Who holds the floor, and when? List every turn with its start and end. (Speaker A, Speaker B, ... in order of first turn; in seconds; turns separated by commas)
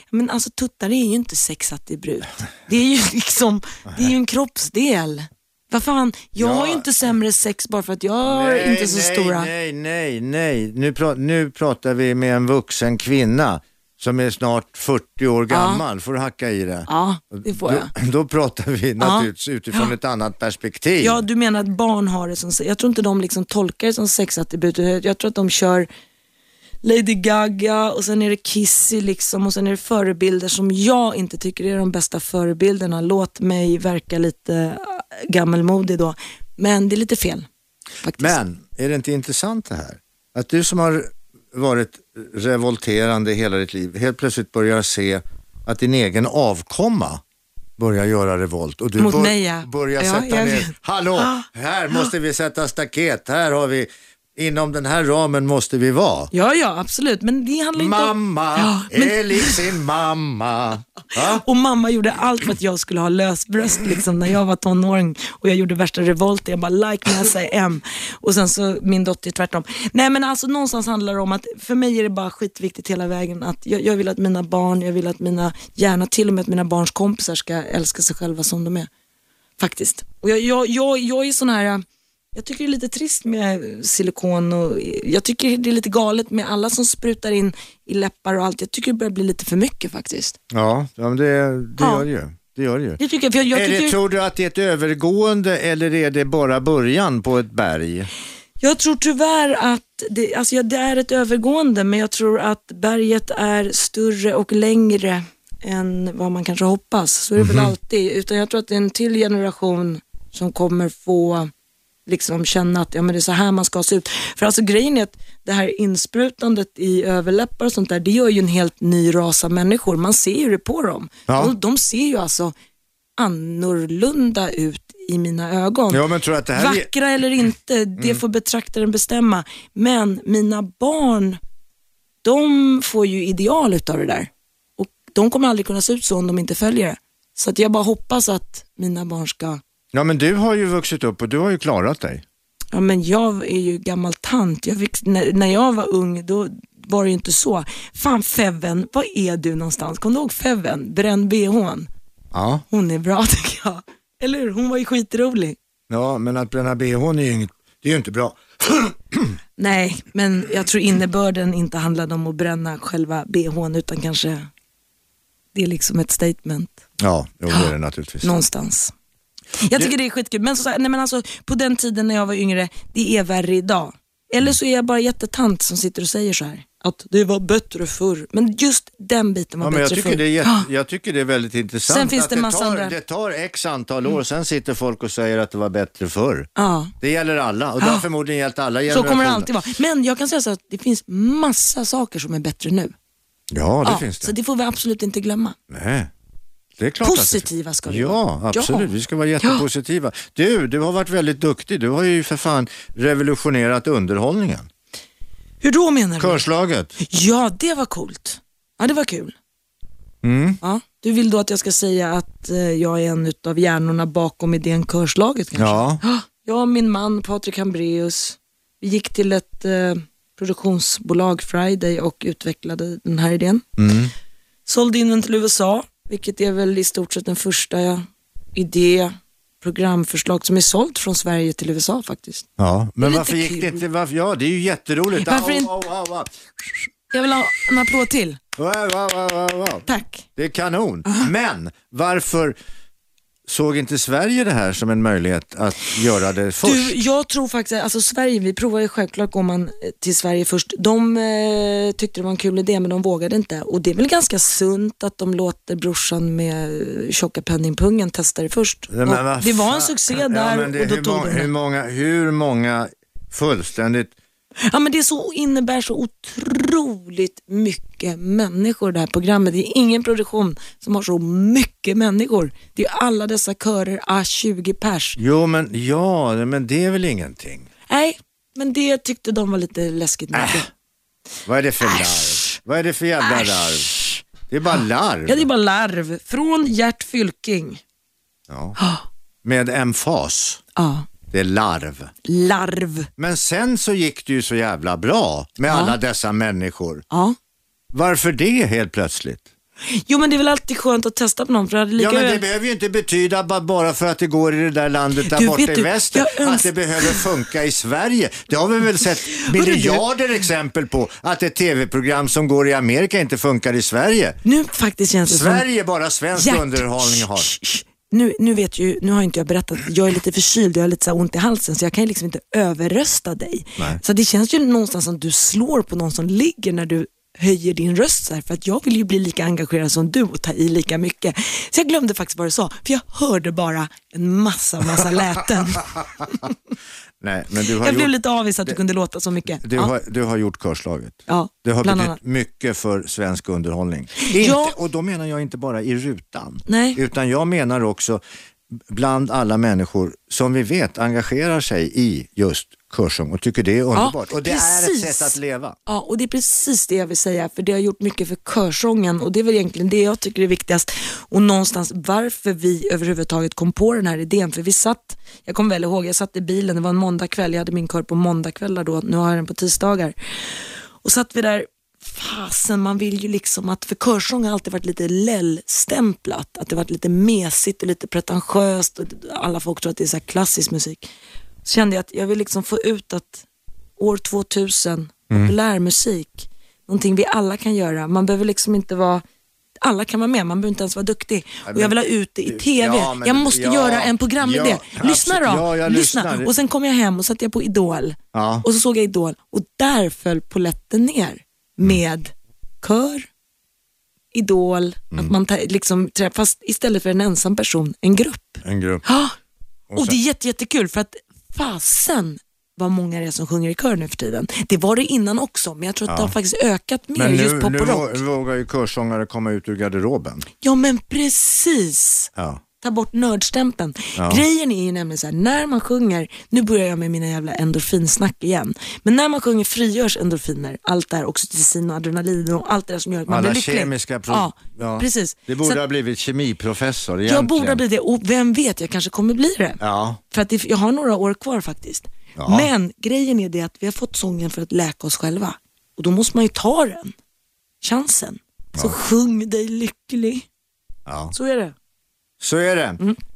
Speaker A: 0.1-9.5, Speaker B: 6.4-6.9, Speaker B: 8.2-21.2, Speaker A: 15.5-15.8, Speaker A: 16.9-17.9, Speaker A: 19.0-19.9, Speaker A: 21.0-25.9, Speaker A: 26.8-37.5, Speaker A: 38.0-38.4, Speaker B: 38.2-47.2, Speaker B: 47.8-56.3, Speaker A: 49.0-51.5, Speaker A: 56.3-59.6, Speaker B: 57.8-61.5, Speaker A: 61.1-78.9, Speaker A: 79.6-81.8, Speaker A: 82.3-90.4, Speaker B: 90.5-93.0, Speaker A: 91.8-92.1, Speaker A: 93.0-94.0, Speaker B: 93.5-98.1, Speaker A: 98.6-111.5, Speaker B: 107.4-107.7, Speaker A: 112.1-122.5, Speaker B: 121.3-121.5, Speaker A: 123.2-126.0, Speaker B: 125.9-126.9, Speaker A: 126.5-131.4, Speaker A: 132.2-139.6, Speaker B: 139.9-142.2, Speaker A: 142.7-151.9, Speaker B: 152.3-152.6, Speaker A: 152.7-155.6, Speaker B: 155.9-159.4, Speaker A: 159.6-164.5, Speaker A: 165.5-166.8, Speaker B: 167.0-168.3, Speaker A: 168.2-168.9, Speaker A: 169.6-180.7, Speaker B: 179.6-186.5, Speaker A: 181.9-182.9, Speaker A: 186.6-186.9, Speaker B: 187.0-189.5, Speaker A: 188.9-192.9, Speaker B: 193.5-194.3, Speaker A: 193.8-195.6, Speaker B: 195.7-196.1, Speaker B: 196.8-204.7, Speaker A: 197.0-199.6, Speaker A: 205.6-206.4, Speaker B: 206.2-207.0, Speaker A: 207.0-209.4, Speaker B: 210.2-210.6, Speaker A: 210.6-223.7, Speaker B: 215.6-216.0, Speaker B: 223.8-224.1, Speaker A: 224.7-232.5, Speaker B: 232.6-236.9, Speaker A: 233.0-233.8, Speaker A: 235.2-235.7, Speaker A: 237.1-238.4, Speaker B: 238.6-242.6, Speaker A: 239.9-240.3, Speaker B: 243.5-247.0, Speaker A: 246.6-261.5, Speaker B: 258.9-264.1, Speaker A: 264.7-275.2, Speaker B: 275.2-277.7, Speaker A: 277.9-280.7, Speaker B: 280.3-280.6, Speaker B: 281.5-283.9, Speaker A: 281.8-282.6, Speaker A: 283.2-284.2, Speaker B: 284.5-285.5, Speaker A: 285.3-287.8, Speaker B: 288.5-288.8, Speaker A: 288.8-289.1, Speaker B: 289.4-290.6, Speaker A: 290.8-291.1, Speaker B: 291.3-292.1, Speaker A: 292.2-293.1, Speaker B: 293.2-297.0, Speaker A: 295.7-296.0, Speaker A: 297.1-297.4, Speaker B: 297.9-299.4, Speaker A: 299.8-302.4, Speaker B: 302.0-314.4, Speaker A: 305.2-307.2, Speaker A: 309.3-310.1, Speaker A: 314.4-315.7, Speaker B: 315.3-317.5, Speaker A: 316.4-336.6, Speaker B: 337.2-338.1, Speaker A: 337.8-339.9, Speaker B: 339.6-348.2, Speaker A: 341.3-342.2, Speaker A: 344.2-344.8, Speaker A: 346.7-347.0, Speaker B: 348.8-355.8, Speaker A: 353.9-355.4, Speaker A: 355.9-370.1, Speaker A: 371.0-381.1, Speaker A: 381.6-383.5, Speaker A: 384.0-389.2, Speaker A: 389.8-403.3, Speaker B: 391.6-396.5, Speaker B: 398.3-398.7, Speaker A: 404.3-409.4, Speaker B: 408.6-409.0, Speaker B: 409.9-410.2, Speaker A: 409.9-418.2, Speaker B: 416.1-416.3, Speaker B: 417.1-420.5, Speaker A: 420.6-422.3, Speaker B: 422.4-422.6, Speaker A: 422.8-435.8, Speaker B: 424.2-424.4, Speaker B: 433.3-437.8, Speaker A: 437.3-447.1, Speaker B: 439.8-440.2, Speaker B: 442.4-442.7, Speaker A: 447.8-450.5, Speaker B: 451.1-451.3, Speaker A: 451.3-451.8, Speaker B: 452.4-453.0